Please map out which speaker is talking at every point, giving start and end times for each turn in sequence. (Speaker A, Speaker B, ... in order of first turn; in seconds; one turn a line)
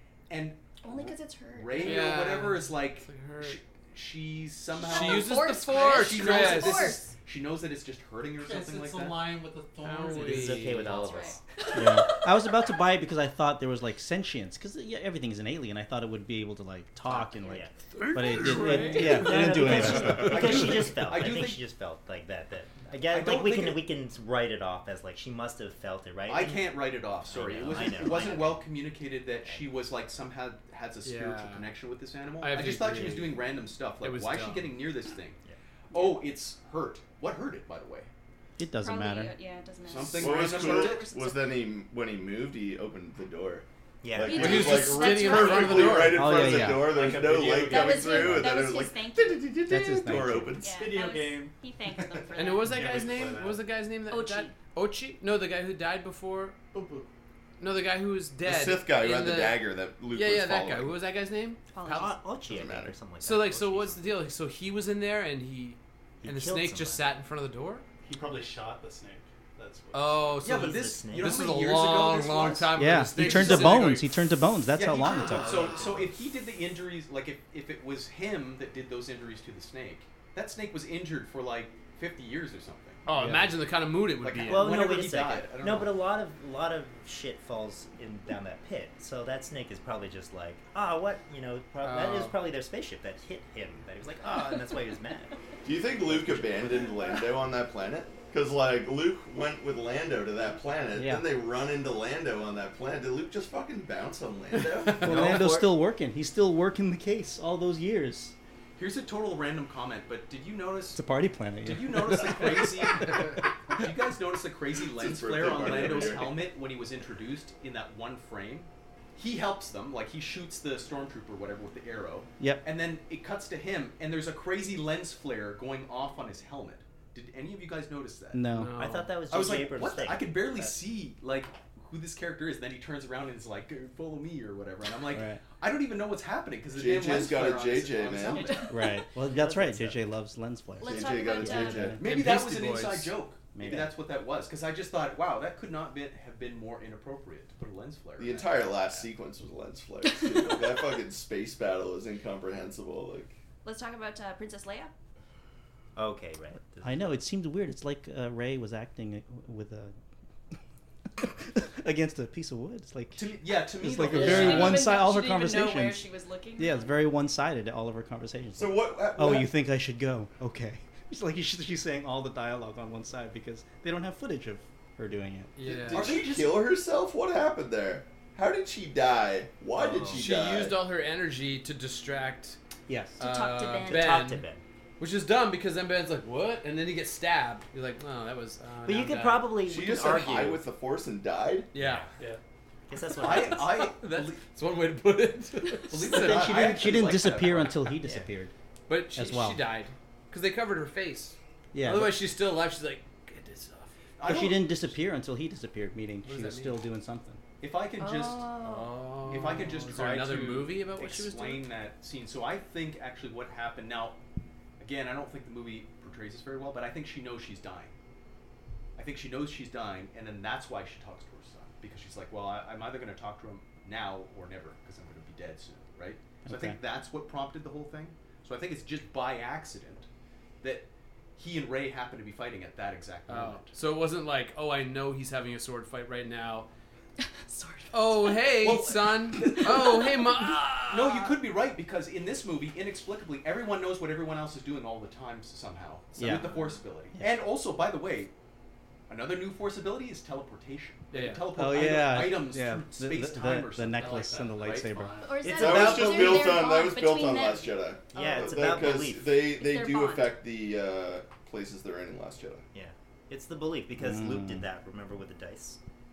Speaker A: 0.3-9.4
Speaker B: 0.8-2.1
Speaker C: 1.8-3.6
Speaker C: 4.8-7.0
Speaker B: 4.8-7.1
Speaker D: 8.4-11.3
Speaker C: 9.8-11.1
Speaker E: 10.2-11.4
Speaker B: 10.9-12.4
Speaker F: 11.7-20.8
Speaker E: 17.1-17.9
Speaker C: 18.0-19.5
Speaker G: 18.0-18.6
Speaker E: 18.6-28.7
Speaker A: 19.6-21.6
Speaker A: 23.1-23.9
Speaker A: 26.3-35.4
Speaker E: 29.4-29.7
Speaker C: 31.0-31.7
Speaker C: 32.4-33.4
Speaker C: 34.0-34.8
Speaker B: 35.9-36.2
Speaker A: 35.9-38.1
Speaker F: 38.6-39.3
Speaker B: 38.8-41.5
Speaker A: 39.9-41.1
Speaker G: 40.1-51.0
Speaker E: 44.0-44.8
Speaker B: 44.2-46.1
Speaker C: 44.3-46.7
Speaker D: 45.9-48.4
Speaker F: 46.1-47.0
Speaker B: 47.6-49.5
Speaker F: 49.7-50.7
Speaker B: 50.6-53.0
Speaker D: 50.7-53.7
Speaker C: 52.4-56.6
Speaker B: 54.1-54.6
Speaker D: 56.7-57.1
Speaker C: 57.6-62.2
Speaker G: 58.4-61.0
Speaker B: 61.7-62.2
Speaker E: 61.8-64.0
Speaker G: 62.4-63.0
Speaker C: 63.2-67.8
Speaker E: 66.2-67.1
Speaker D: 68.0-70.5
Speaker C: 69.9-74.1
Speaker A: 70.4-74.0
Speaker E: 70.5-71.5
Speaker F: 72.8-75.8
Speaker A: 74.7-83.1
Speaker D: 75.2-76.1
Speaker C: 83.1-84.9
Speaker F: 83.2-83.4
Speaker A: 84.2-85.9
Speaker E: 84.4-95.3
Speaker C: 91.8-92.3
Speaker G: 95.6-105.4
Speaker E: 96.0-97.1
Speaker F: 101.0-101.3
Speaker E: 105.0-105.7
Speaker F: 105.0-108.3
Speaker A: 108.8-111.0
Speaker F: 110.9-113.3
Speaker A: 111.6-128.5
Speaker G: 114.9-116.5
Speaker F: 128.3-128.8
Speaker C: 128.5-129.2
Speaker E: 128.7-130.8
Speaker A: 129.3-138.7
Speaker F: 135.1-135.4
Speaker G: 136.8-138.6
Speaker B: 138.3-139.1
Speaker F: 138.7-142.0
Speaker E: 139.2-140.0
Speaker B: 140.8-141.9
Speaker G: 140.8-142.0
Speaker C: 142.0-143.1
Speaker A: 142.0-149.1
Speaker F: 143.6-143.9
Speaker G: 148.2-153.3
Speaker B: 153.6-154.9
Speaker E: 156.0-157.1
Speaker F: 156.8-160.0
Speaker F: 161.2-166.0
Speaker A: 163.2-164.9
Speaker B: 164.1-166.9
Speaker F: 166.6-175.5
Speaker G: 168.6-169.5
Speaker C: 175.6-176.2
Speaker G: 175.7-180.8
Speaker A: 175.9-176.7
Speaker E: 179.7-180.4
Speaker C: 180.1-182.6
Speaker F: 182.9-183.2
Speaker C: 183.2-184.5
Speaker B: 183.2-184.2
Speaker E: 183.8-184.6
Speaker C: 185.0-189.5
Speaker E: 188.8-190.6
Speaker G: 189.6-191.7
Speaker C: 191.7-192.1
Speaker E: 191.8-192.1
Speaker E: 192.9-193.8
Speaker A: 193.2-194.5
Speaker C: 193.2-196.6
Speaker A: 195.8-197.8
Speaker F: 196.0-198.5
Speaker E: 198.0-198.3
Speaker C: 198.9-203.9
Speaker F: 199.1-199.7
Speaker F: 201.7-202.2
Speaker A: 204.2-204.9
Speaker F: 204.2-207.4
Speaker C: 206.2-206.8
Speaker A: 207.6-208.5
Speaker B: 208.0-209.1
Speaker C: 208.6-211.7
Speaker A: 209.2-214.2
Speaker A: 214.8-217.9
Speaker A: 219.0-230.1
Speaker F: 226.4-226.8
Speaker A: 230.6-233.8
Speaker C: 233.3-236.7
Speaker B: 237.2-238.8
Speaker C: 237.9-241.3
Speaker A: 238.6-240.2
Speaker B: 239.4-240.0
Speaker A: 240.9-248.3
Speaker F: 246.2-246.5
Speaker A: 249.1-255.1
Speaker C: 251.1-251.5
Speaker F: 251.6-255.1
Speaker D: 253.9-255.5
Speaker B: 255.2-258.9
Speaker E: 255.4-256.5
Speaker G: 255.4-262.6
Speaker E: 258.1-259.4
Speaker B: 259.5-260.4
Speaker E: 262.7-265.8
Speaker F: 264.0-264.7